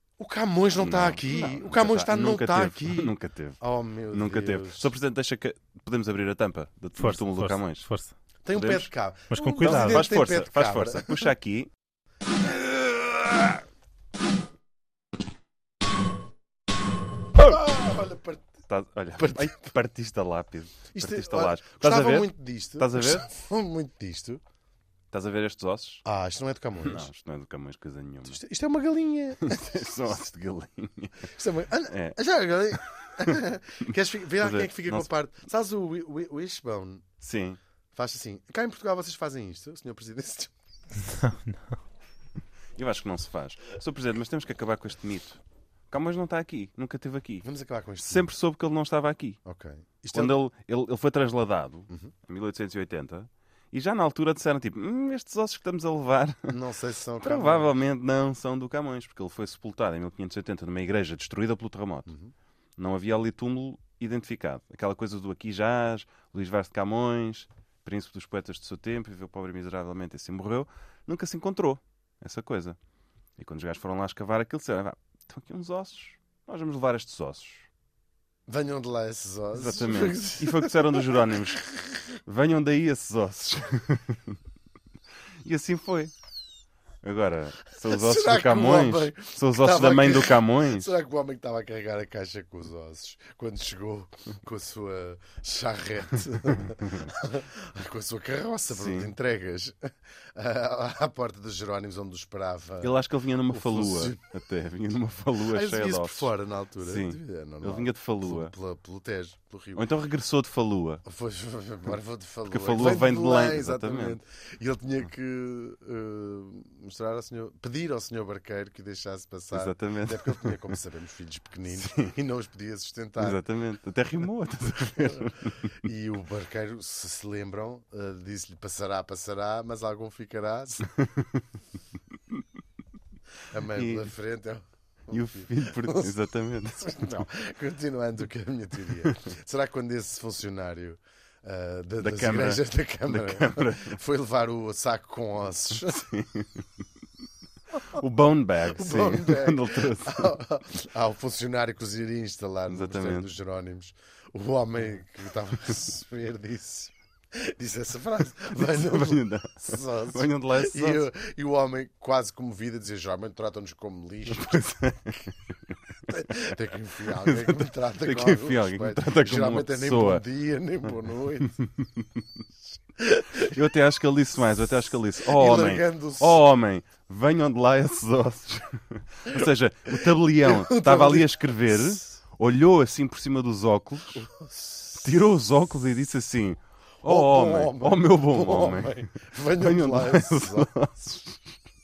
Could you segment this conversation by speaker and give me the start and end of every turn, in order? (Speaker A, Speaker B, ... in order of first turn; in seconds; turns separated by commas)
Speaker A: 0.2-4.9, Speaker B: 0.8-3.6, Speaker B: 4.1-7.9, Speaker C: 7.0-8.1, Speaker A: 8.4-11.3, Speaker B: 8.5-8.9, Speaker C: 9.3-10.1, Speaker B: 9.6-11.7, Speaker A: 17.4-18.4, Speaker B: 18.7-23.3, Speaker A: 19.2-19.7, Speaker A: 20.9-24.4, Speaker B: 25.1-26.0, Speaker A: 26.1-27.1, Speaker B: 26.8-28.4, Speaker A: 28.3-29.9, Speaker B: 29.4-31.3, Speaker A: 31.3-37.0, Speaker B: 31.9-32.2, Speaker B: 34.4-35.1, Speaker B: 37.2-37.6, Speaker A: 37.9-40.5, Speaker C: 41.1-41.8, Speaker B: 42.8-45.4, Speaker B: 45.9-47.5, Speaker A: 47.4-48.3, Speaker B: 48.0-49.4, Speaker A: 49.5-50.4, Speaker B: 50.1-56.6, Speaker A: 56.5-57.7, Speaker B: 57.2-62.1, Speaker A: 62.1-62.3, Speaker B: 62.8-72.8, Speaker B: 73.4-77.7, Speaker A: 78.5-81.9, Speaker B: 79.5-81.7, Speaker B: 82.2-84.4, Speaker B: 85.4-86.1, Speaker B: 87.0-90.9, Speaker A: 87.8-104.2, Speaker B: 98.7-99.1, Speaker B: 102.8-108.5, Speaker A: 105.5-109.8, Speaker B: 109.8-111.0, Speaker A: 111.0-123.4, Speaker B: 112.5-114.2, Speaker B: 119.5-120.6, Speaker B: 121.8-122.1, Speaker B: 123.2-125.7, Speaker A: 125.8-130.9, Speaker B: 131.0-131.4, Speaker A: 133.5-136.1, Speaker B: 133.8-134.1, Speaker B: 135.1-137.2, Speaker A: 136.8-146.1, Speaker B: 142.0-144.0, Speaker B: 145.8-146.6, Speaker B: 147.9-150.3, Speaker A: 148.8-164.6, Speaker B: 152.7-153.3, Speaker B: 158.6-161.1, Speaker B: 164.3-165.3, Speaker A: 166.1-171.6, Speaker B: 167.2-170.2, Speaker B: 171.6-172.1, Speaker A: 173.0-173.6, Speaker B: 173.5-184.3, Speaker A: 175.3-176.4, Speaker A: 179.3-182.0, Speaker A: 184.3-185.1, Speaker B: 185.0-191.6, Speaker A: 187.0-190.7